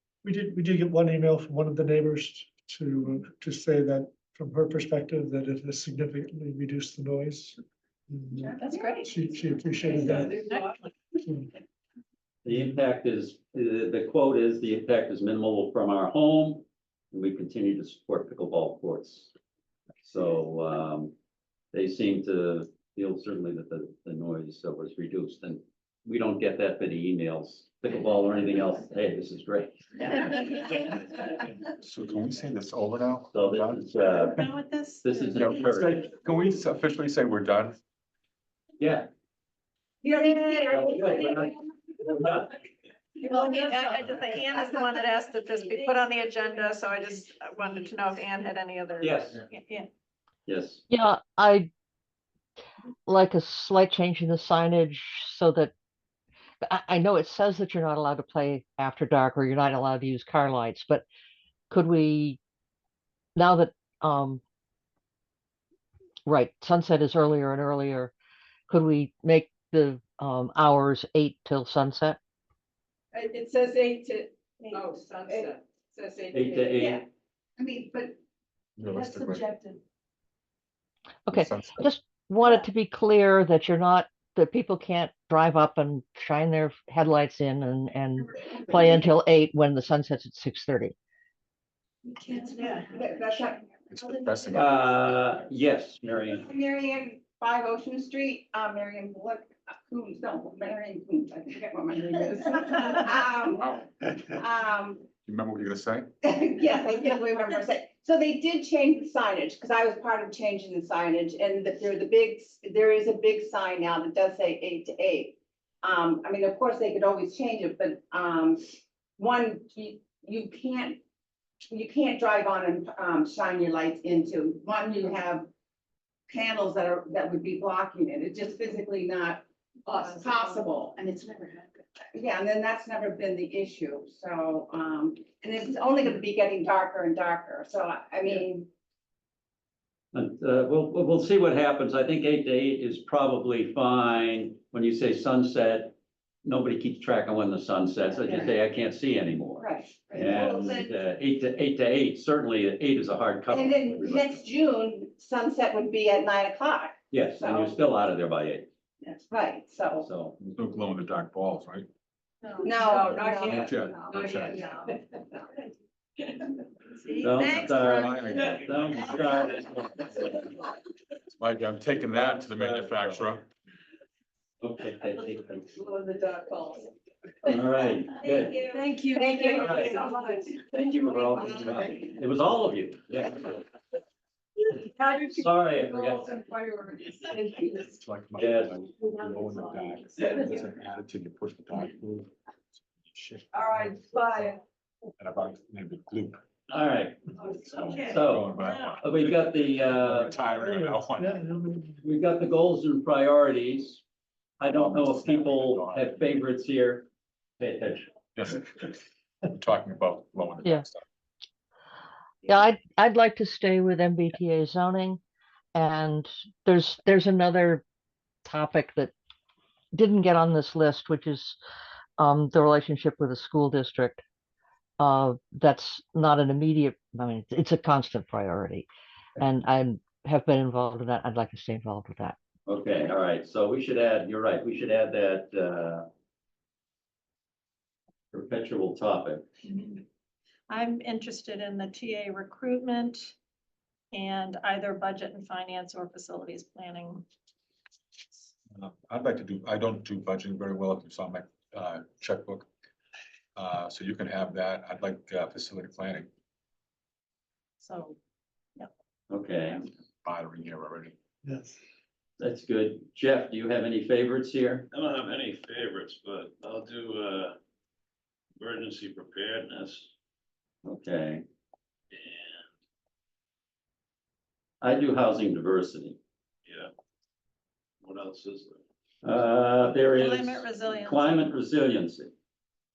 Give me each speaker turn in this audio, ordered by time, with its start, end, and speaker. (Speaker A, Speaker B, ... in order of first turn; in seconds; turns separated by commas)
Speaker A: 0.2-7.6, Speaker A: 8.1-10.6, Speaker B: 8.4-9.0, Speaker C: 8.5-9.1, Speaker C: 10.0-10.8, Speaker D: 12.4-19.3, Speaker D: 20.0-21.1, Speaker D: 21.7-30.1, Speaker E: 31.8-34.4, Speaker D: 33.3-34.4, Speaker C: 34.2-35.5, Speaker D: 35.0-36.0, Speaker E: 35.3-37.8, Speaker D: 38.8-39.1, Speaker B: 40.0-41.6, Speaker D: 40.7-41.5, Speaker D: 42.1-42.5, Speaker C: 43.2-49.9, Speaker D: 49.0-49.4, Speaker D: 50.5-50.8, Speaker F: 50.9-51.7, Speaker F: 53.1-55.7, Speaker F: 56.6-61.0, Speaker F: 61.7-62.4, Speaker F: 63.3-64.4, Speaker F: 66.2-68.1, Speaker F: 68.7-72.2, Speaker B: 73.1-77.0, Speaker D: 76.3-77.0, Speaker B: 77.6-78.2, Speaker E: 78.8-79.5, Speaker F: 81.2-90.9, Speaker E: 81.3-81.9, Speaker C: 92.3-93.2, Speaker B: 92.3-94.8, Speaker E: 93.9-95.2, Speaker D: 94.5-96.4, Speaker B: 96.3-105.1, Speaker E: 103.7-104.4, Speaker E: 105.2-106.1, Speaker B: 106.2-118.6, Speaker B: 119.2-121.0, Speaker B: 121.7-125.5, Speaker B: 126.3-131.2, Speaker B: 132.0-138.7, Speaker D: 140.1-154.3, Speaker B: 148.2-148.6, Speaker B: 149.6-150.9, Speaker B: 153.5-157.8, Speaker D: 157.1-158.7, Speaker B: 159.0-160.1, Speaker D: 160.0-160.4, Speaker E: 160.4-161.9, Speaker C: 162.4-162.8, Speaker B: 162.6-165.5, Speaker E: 162.9-164.7, Speaker C: 167.0-167.6, Speaker D: 167.2-170.3, Speaker E: 167.4-169.5, Speaker E: 171.3-173.4, Speaker D: 174.6-175.7, Speaker B: 175.8-176.8, Speaker D: 177.5-178.7, Speaker B: 178.2-180.5, Speaker D: 179.5-180.1, Speaker D: 180.8-183.6, Speaker D: 184.8-186.3, Speaker B: 186.1-187.6, Speaker E: 187.8-194.3, Speaker D: 188.4-188.7, Speaker E: 195.2-196.4, Speaker D: 196.7-197.3, Speaker E: 197.5-201.4, Speaker D: 197.9-198.5, Speaker D: 199.0-200.3, Speaker A: 200.6-202.0, Speaker D: 202.0-204.0, Speaker D: 204.6-207.1, Speaker E: 204.7-206.5, Speaker D: 207.6-208.1, Speaker E: 208.3-211.0, Speaker F: 212.4-215.2, Speaker F: 215.7-217.8, Speaker F: 218.4-219.1, Speaker F: 219.9-221.6, Speaker F: 222.2-224.2, Speaker F: 225.0-228.9, Speaker F: 229.4-232.3, Speaker D: 232.7-236.1, Speaker D: 238.3-239.4, Speaker C: 239.6-240.0, Speaker C: 240.7-243.3, Speaker C: 244.1-247.2, Speaker E: 248.7-252.7, Speaker E: 253.6-256.3, Speaker C: 257.8-258.2, Speaker D: 259.3-259.8, Speaker E: 260.2-261.1, Speaker A: 261.4-261.8, Speaker D: 262.4-264.9, Speaker G: 264.9-267.6, Speaker G: 268.6-270.1, Speaker D: 270.9-271.4, Speaker G: 272.1-272.7, Speaker D: 274.8-276.2, Speaker G: 276.6-276.9, Speaker G: 278.0-278.8, Speaker D: 279.2-282.3, Speaker C: 280.0-281.5